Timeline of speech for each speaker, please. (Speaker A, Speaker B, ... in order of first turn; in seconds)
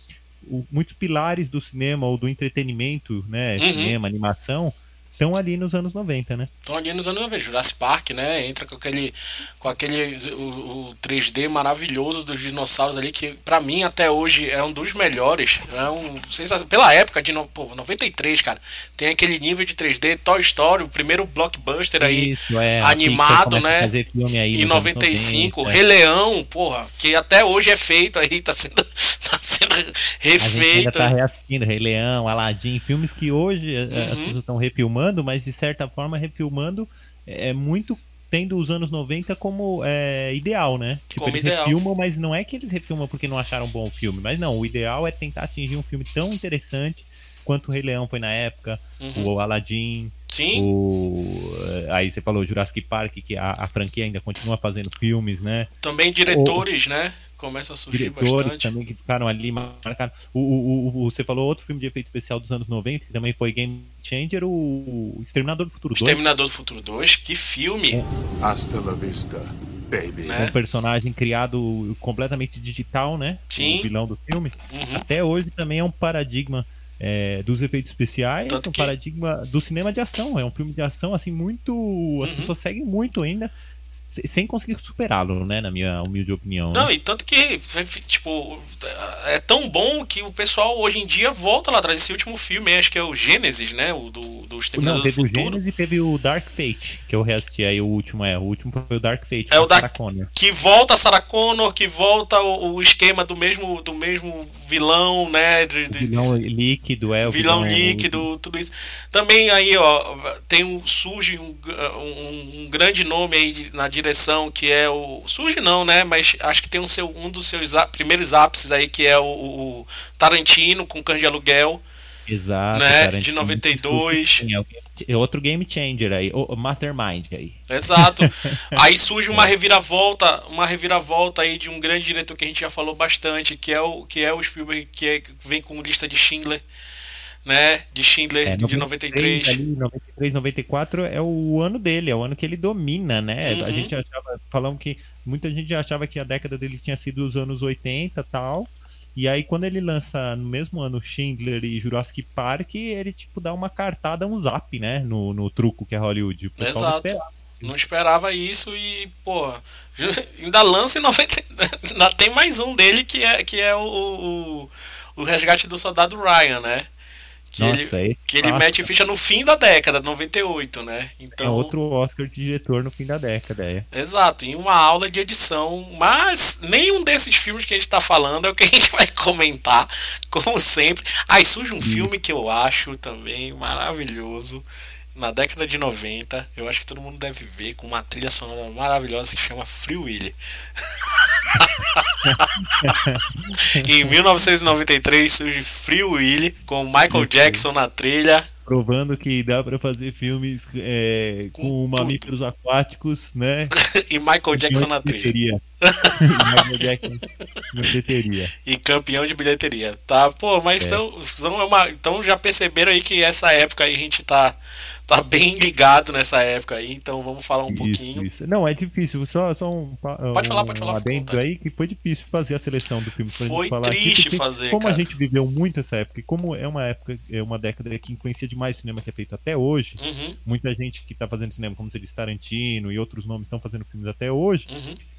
Speaker A: 0.4-6.5, 22.0-25.8, 30.4-55.7, 56.3-56.6, 57.9-66.2, 70.3-86.9, 94.8-100.3, 105.9-108.3, 122.3-129.5, 138.4-157.7, 167.6-168.9, 171.4-173.9, 181.8-182.1, 192.2-194.1, 197.1-197.7, 198.7-203.7, 204.5-205.6, 206.2-208.5, 217.7-234.7
Speaker B: 3.6-4.0, 6.7-23.9, 24.5-31.1, 33.9-34.4, 41.1-41.8, 49.0-49.3, 50.3-50.7, 55.8-58.7, 66.0-68.0, 70.2-70.5, 73.5-73.9, 74.7-75.0, 78.5-78.9, 82.2-82.5, 86.7-95.6, 99.5-106.3, 107.2-121.8, 122.7-124.4, 127.7-136.6, 137.4-139.6, 143.4-143.9, 156.6-166.9, 167.5-171.7, 173.9-184.6, 185.2-193.0, 193.7-198.5, 201.6-202.3, 203.8-205.3, 205.8-206.8, 208.6-214.6, 215.1-218.3, 220.3-221.4, 223.3-225.1, 230.0-230.4, 234.7-235.0
Speaker C: 68.4-70.4